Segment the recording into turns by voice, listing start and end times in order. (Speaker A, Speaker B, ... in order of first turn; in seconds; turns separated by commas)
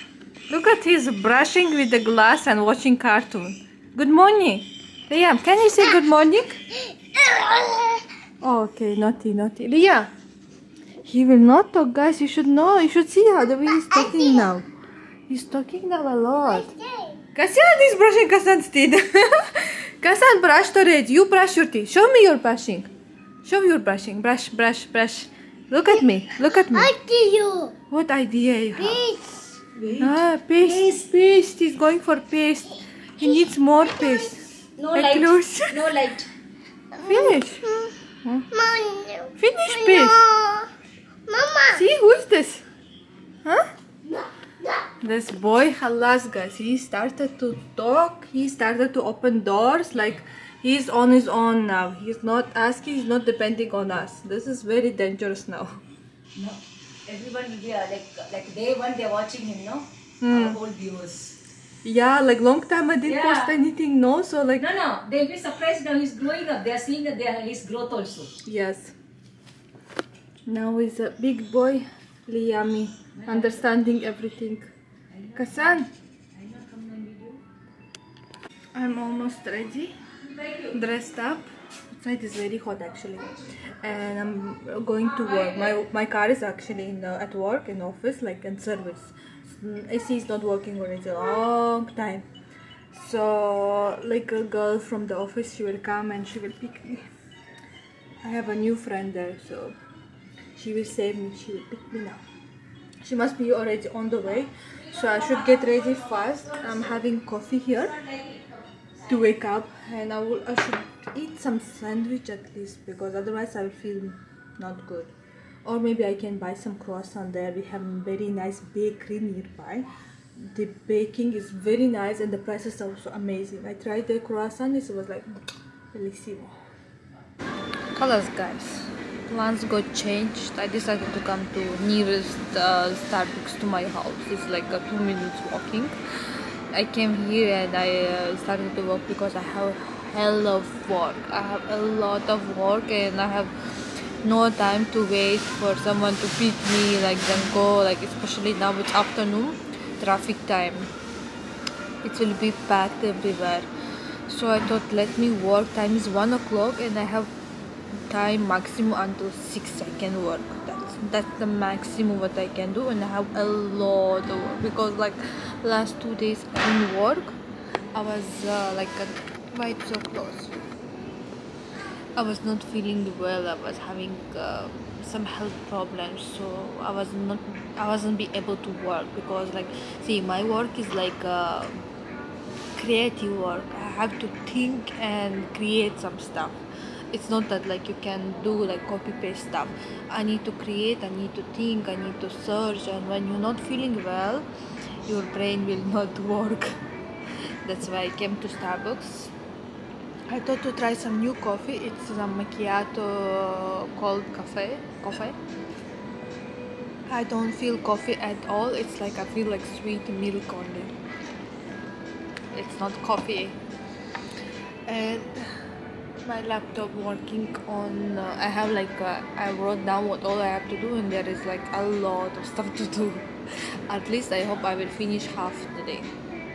Speaker A: 0.5-6.6, Speaker A: 8.4-10.1, Speaker A: 11.0-14.6, Speaker A: 15.3-16.7, Speaker B: 16.9-17.1, Speaker A: 17.3-22.9, Speaker A: 23.4-26.9, Speaker B: 26.7-27.7, Speaker A: 27.9-29.0, Speaker B: 29.0-29.5, Speaker C: 29.7-31.1, Speaker A: 30.0-35.9, Speaker C: 34.8-36.3, Speaker A: 37.0-38.6, Speaker B: 38.6-39.3, Speaker A: 39.4-40.3, Speaker B: 39.9-40.7, Speaker B: 41.3-41.6, Speaker A: 41.7-42.6, Speaker A: 43.4-43.7, Speaker A: 45.0-55.8, Speaker C: 56.4-61.4, Speaker A: 60.2-60.6, Speaker A: 61.8-64.7, Speaker C: 63.0-63.5, Speaker C: 64.6-68.4, Speaker A: 68.4-68.9, Speaker A: 70.5-74.7, Speaker C: 73.3-73.5, Speaker C: 75.2-75.8, Speaker A: 75.3-75.9, Speaker C: 76.3-77.4, Speaker A: 78.7-79.9, Speaker A: 80.6-92.3, Speaker A: 92.9-97.1, Speaker A: 98.2-99.8, Speaker A: 100.5-102.2, Speaker A: 103.0-108.0, Speaker C: 105.0-106.8, Speaker A: 109.0-115.1, Speaker A: 115.6-119.9, Speaker A: 120.4-125.3, Speaker A: 125.9-126.5, Speaker A: 127.9-150.9, Speaker A: 152.0-153.7, Speaker A: 154.3-157.3, Speaker A: 158.1-167.4, Speaker A: 167.9-170.6, Speaker A: 172.2-181.7, Speaker A: 182.8-186.5, Speaker A: 187.1-194.4, Speaker A: 195.0-196.7, Speaker A: 197.6-199.3, Speaker A: 200.3-205.3, Speaker A: 207.1-210.9, Speaker A: 212.5-213.6, Speaker A: 214.8-215.5, Speaker A: 216.2-223.3, Speaker A: 223.9-226.1